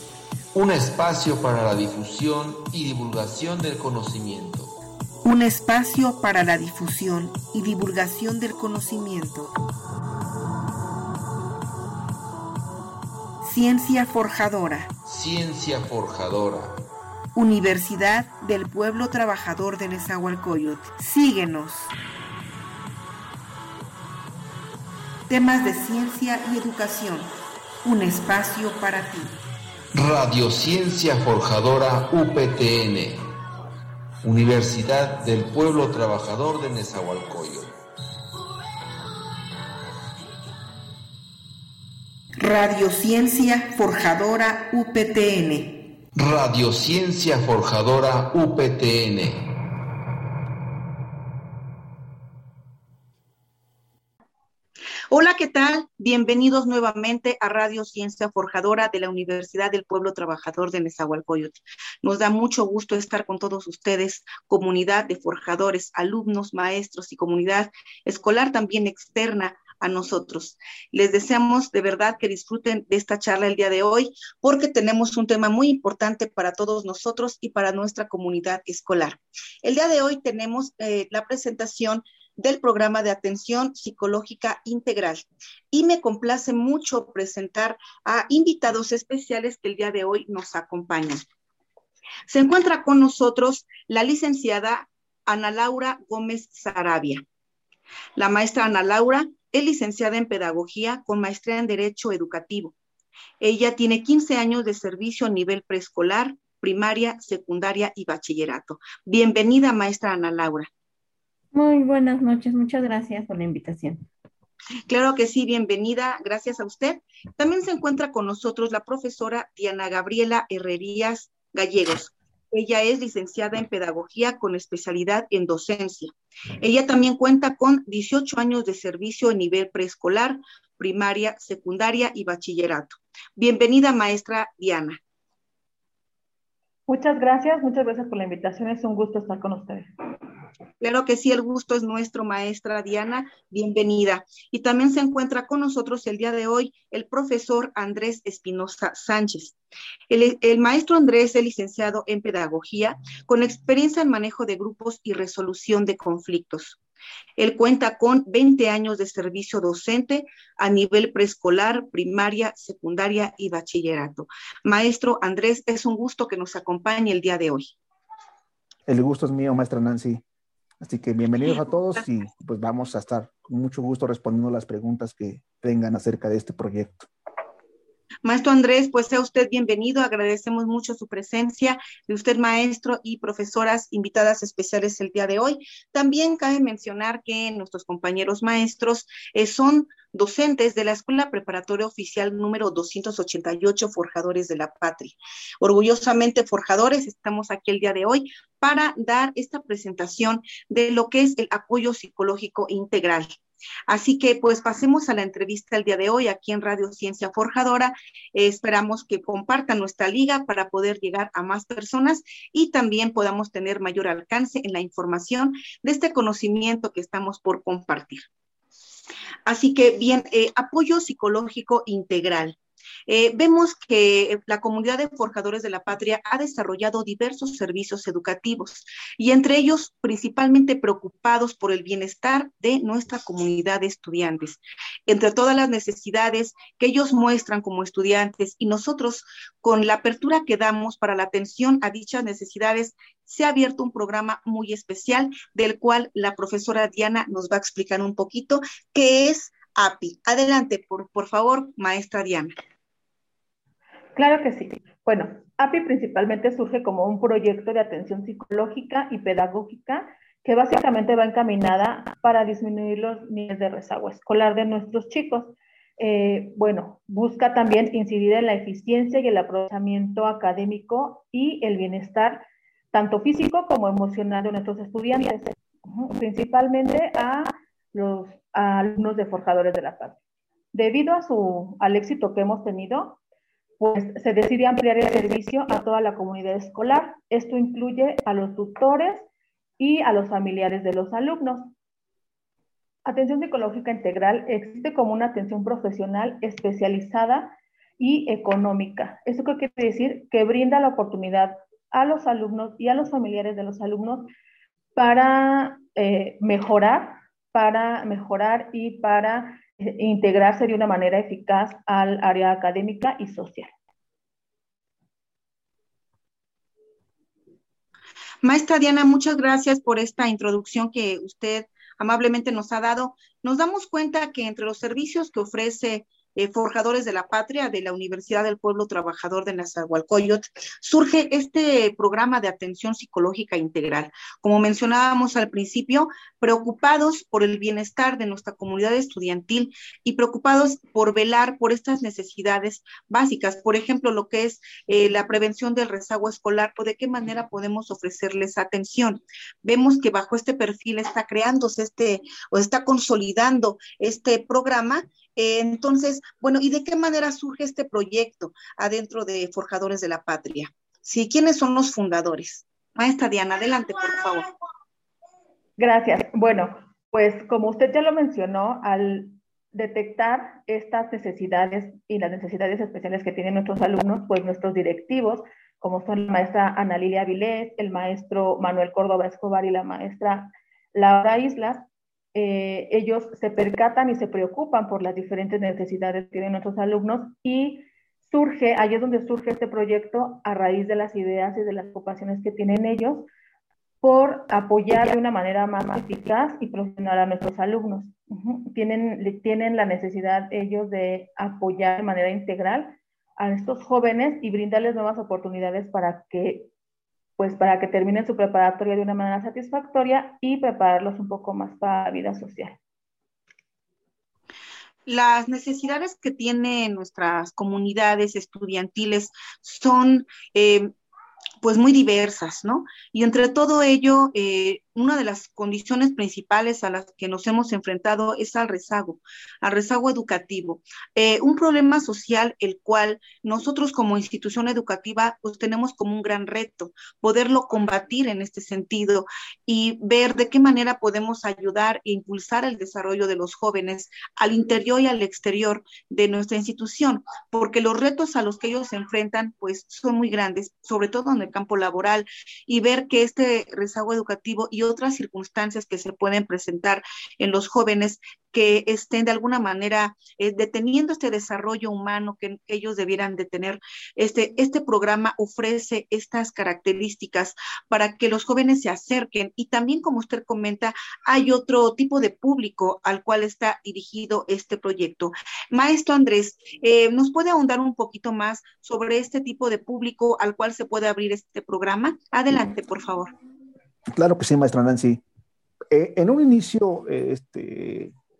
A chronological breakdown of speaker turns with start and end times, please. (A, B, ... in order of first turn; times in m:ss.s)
0:00.5-0:04.7 A
0:05.2-0:09.5 B
0:13.4-0:14.9 B
0:15.0-0:16.7 A
0:17.4-0:21.9 B
0:25.3-0:27.3 B
0:27.8-0:29.3 B
0:29.9-0:33.3 A
0:34.2-0:37.8 A
0:42.4-0:45.7 B
0:46.1-0:49.4 A
0:55.1-1:31.2 B
1:32.3-1:37.2 B
1:38.2-1:42.7 B
1:43.4-1:50.7 B
1:51.5-1:54.0 C
1:54.9-2:15.0 B
2:16.9-2:19.9 D
2:20.8-2:29.6 B
2:30.1-2:36.8 B
2:37.4-2:47.7 B
2:48.9-2:50.2 E
2:50.8-2:57.1 E
2:58.2-3:23.4 B
3:23.9-3:38.2 B
3:39.4-3:42.6 B
3:43.1-4:12.5 B
4:14.2-4:40.2 D
4:40.7-4:43.2 D
4:43.8-4:49.2 D
4:49.8-4:51.7 D
4:53.0-5:04.3 D
5:05.0-5:13.7 D
5:18.4-6:04.5 B
6:05.8-6:21.8 D
6:22.3-6:33.2 D
6:34.0-6:46.7 D
6:47.4-6:52.8 D
6:55.1-7:00.9 B
7:01.6-8:03.3 B
8:04.1-8:05.2 E
8:05.9-8:08.1 E